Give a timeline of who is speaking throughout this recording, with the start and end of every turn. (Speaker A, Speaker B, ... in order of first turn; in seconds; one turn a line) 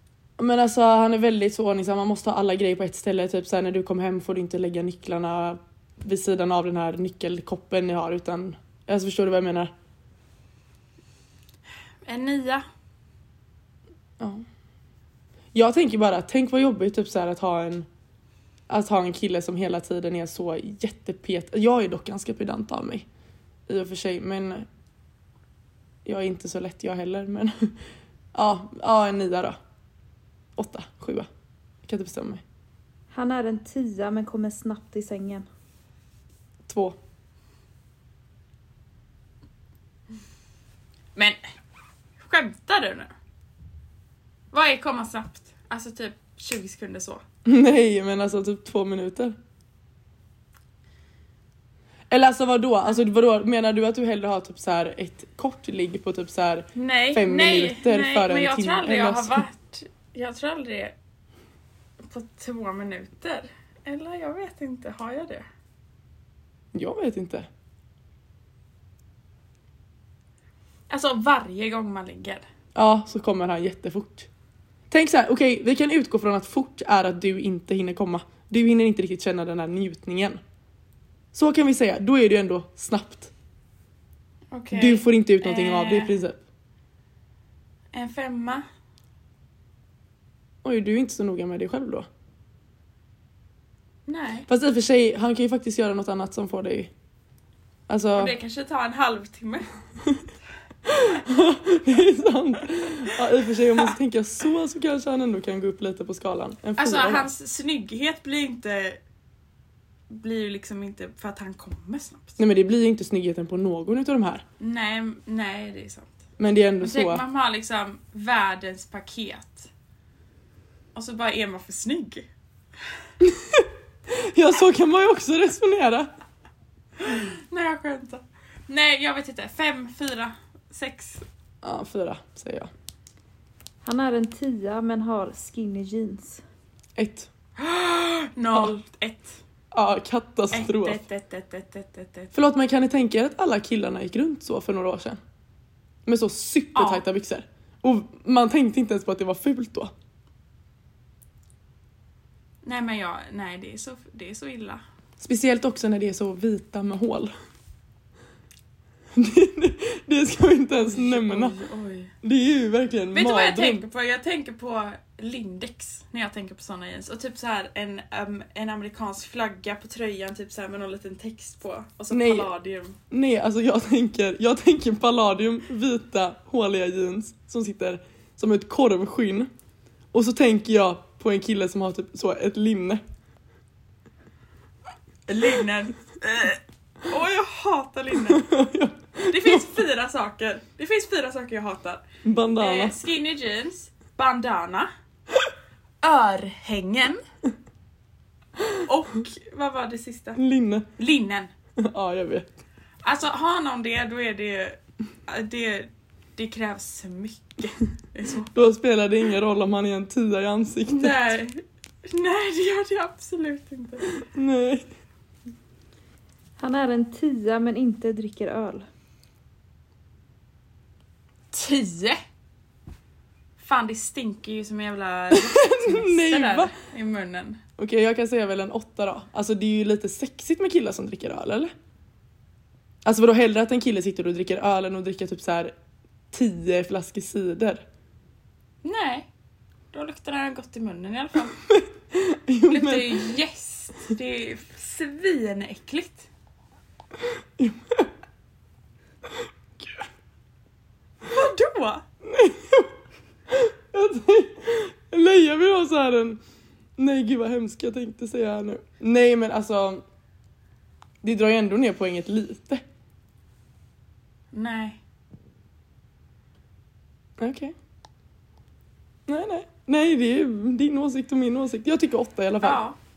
Speaker A: 0.4-9.7
Speaker B: 12.0-12.7
Speaker A: 14.2-14.4
Speaker A: 15.5-17.9
Speaker A: 18.7-23.1
Speaker A: 23.7-24.7
Speaker A: 26.1-27.7
Speaker A: 28.3-29.6
Speaker A: 30.6-31.3
Speaker A: 31.9-32.4
Speaker C: 33.1-35.5
Speaker A: 36.7-37.0
Speaker B: 42.2-43.1
Speaker B: 44.5-47.2
Speaker A: 47.5-49.4
Speaker A: 52.1-59.5
Speaker B: 56.8-60.9
Speaker B: 62.0-65.5
Speaker A: 66.7-67.5
Speaker B: 70.9-72.4
Speaker A: 72.8-74.3
Speaker A: 74.9-80.4
Speaker A: 81.3-83.3
Speaker B: 84.5-86.2
Speaker A: 84.7-86.4
Speaker B: 87.9-88.7
Speaker A: 90.6-92.1
Speaker B: 94.1-94.5
Speaker A: 94.5-96.9
Speaker A: 97.9-98.3
Speaker B: 98.2-99.7
Speaker A: 100.8-107.3
Speaker B: 106.8-109.0
Speaker B: 110.1-112.4
Speaker A: 112.4-114.5
Speaker B: 114.6-116.1
Speaker A: 116.4-117.2
Speaker B: 116.8-119.7
Speaker B: 121.0-122.3
Speaker A: 123.2-126.1
Speaker B: 127.0-131.2
Speaker A: 131.6-132.7
Speaker C: 133.8-136.4
Speaker A: 137.0-137.3
Speaker B: 137.6-139.4
Speaker A: 139.7-141.0
Speaker B: 140.5-142.3
Speaker A: 142.3-145.2
Speaker A: 146.1-149.9
Speaker B: 146.8-147.0
Speaker B: 152.6-154.8
Speaker A: 155.2-157.3
Speaker A: 159.1-161.6
Speaker B: 160.9-162.1
Speaker A: 162.2-163.8
Speaker B: 163.1-173.0
Speaker A: 172.1-172.5
Speaker A: 173.1-179.5
Speaker A: 180.1-183.0
Speaker B: 185.3-188.5
Speaker A: 188.2-189.7
Speaker B: 189.3-192.0
Speaker A: 192.2-193.0
Speaker B: 192.6-194.9
Speaker B: 196.0-197.2
Speaker B: 198.8-200.4
Speaker A: 200.4-200.9
Speaker B: 201.0-201.5
Speaker A: 201.8-202.5
Speaker B: 203.0-208.6
Speaker A: 208.5-211.3
Speaker B: 210.9-214.2
Speaker A: 214.3-214.9
Speaker C: 216.6-218.9
Speaker B: 221.5-222.2
Speaker B: 223.6-227.6
Speaker A: 225.3-226.7
Speaker A: 227.8-231.7
Speaker A: 233.1-235.7
Speaker A: 236.3-237.8
Speaker B: 238.8-239.3
Speaker B: 239.9-241.6
Speaker A: 241.7-243.3
Speaker B: 242.7-246.3
Speaker A: 247.2-248.1
Speaker A: 249.3-250.1
Speaker B: 251.2-252.0
Speaker A: 252.2-252.9
Speaker A: 253.5-256.4
Speaker A: 257.0-260.0
Speaker A: 261.2-262.8
Speaker B: 264.5-265.0
Speaker A: 267.4-267.8
Speaker A: 269.3-272.8
Speaker B: 272.6-273.0